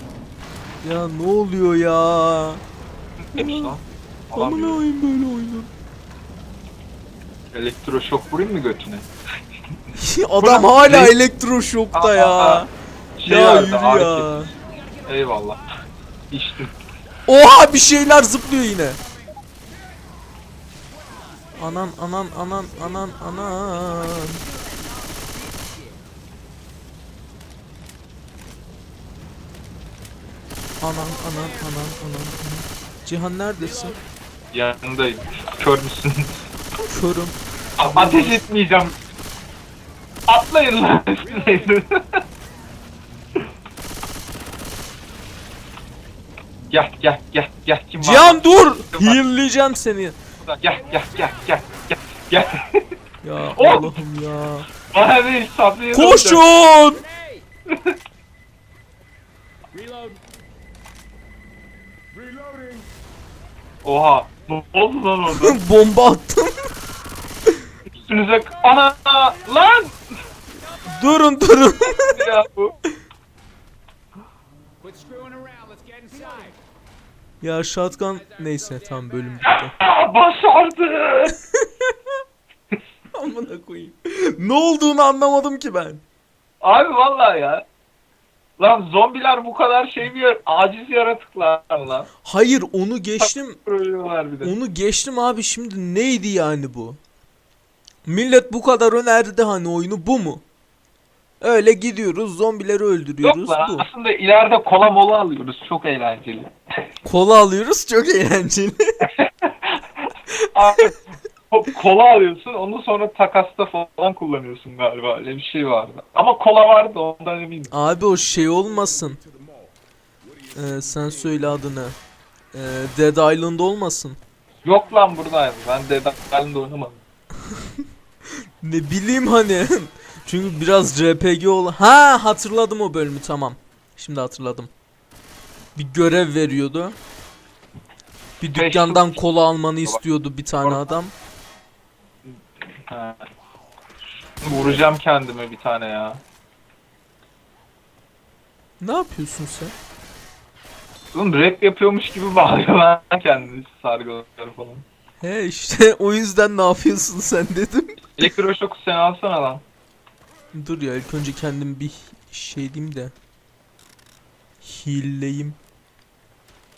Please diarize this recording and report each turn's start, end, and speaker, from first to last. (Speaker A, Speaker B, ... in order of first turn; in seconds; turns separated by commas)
Speaker A: 0.8-2.6, Speaker B: 3.3-4.8, Speaker A: 3.4-3.8, Speaker A: 4.3-5.7, Speaker B: 7.5-9.1, Speaker A: 9.9-12.7, Speaker B: 10.4-11.2, Speaker B: 11.9-12.7, Speaker B: 13.2-14.5, Speaker A: 13.2-14.5, Speaker B: 15.0-15.6, Speaker B: 16.3-16.7, Speaker A: 17.3-19.0, Speaker A: 21.6-24.4, Speaker C: 23.8-25.9, Speaker A: 30.8-34.0, Speaker B: 34.5-36.3, Speaker A: 36.9-37.3, Speaker B: 37.8-39.0, Speaker A: 37.9-38.3, Speaker B: 40.3-42.2, Speaker B: 46.7-49.2, Speaker A: 48.0-50.2, Speaker B: 50.4-52.8, Speaker A: 53.2-54.7, Speaker B: 53.5-54.0, Speaker B: 54.9-56.4, Speaker A: 55.9-57.0, Speaker C: 59.8-60.2, Speaker C: 62.3-62.8, Speaker B: 63.8-65.6, Speaker A: 65.3-66.6, Speaker B: 67.9-70.0, Speaker A: 70.8-72.2, Speaker B: 71.8-72.7, Speaker C: 74.8-76.5, Speaker A: 77.4-79.7, Speaker B: 79.4-81.3, Speaker A: 81.6-82.0, Speaker A: 83.1-86.0, Speaker B: 86.6-87.6, Speaker B: 88.6-92.1, Speaker A: 92.2-93.6, Speaker B: 93.2-94.5, Speaker A: 94.4-97.0, Speaker A: 98.0-100.4, Speaker A: 101.4-103.8, Speaker B: 103.2-106.5, Speaker A: 107.0-108.8, Speaker B: 109.0-111.0, Speaker B: 111.5-117.7, Speaker A: 117.7-119.2, Speaker A: 120.5-122.0, Speaker A: 122.5-124.2, Speaker B: 124.6-127.0, Speaker A: 128.6-134.7, Speaker A: 135.8-137.0, Speaker A: 138.4-141.1, Speaker B: 138.6-139.2, Speaker B: 142.9-143.3, Speaker B: 144.4-146.2, Speaker A: 148.8-149.7, Speaker B: 151.1-154.8, Speaker A: 155.2-158.1, Speaker B: 158.2-159.6, Speaker A: 160.5-163.1, Speaker A: 164.6-165.6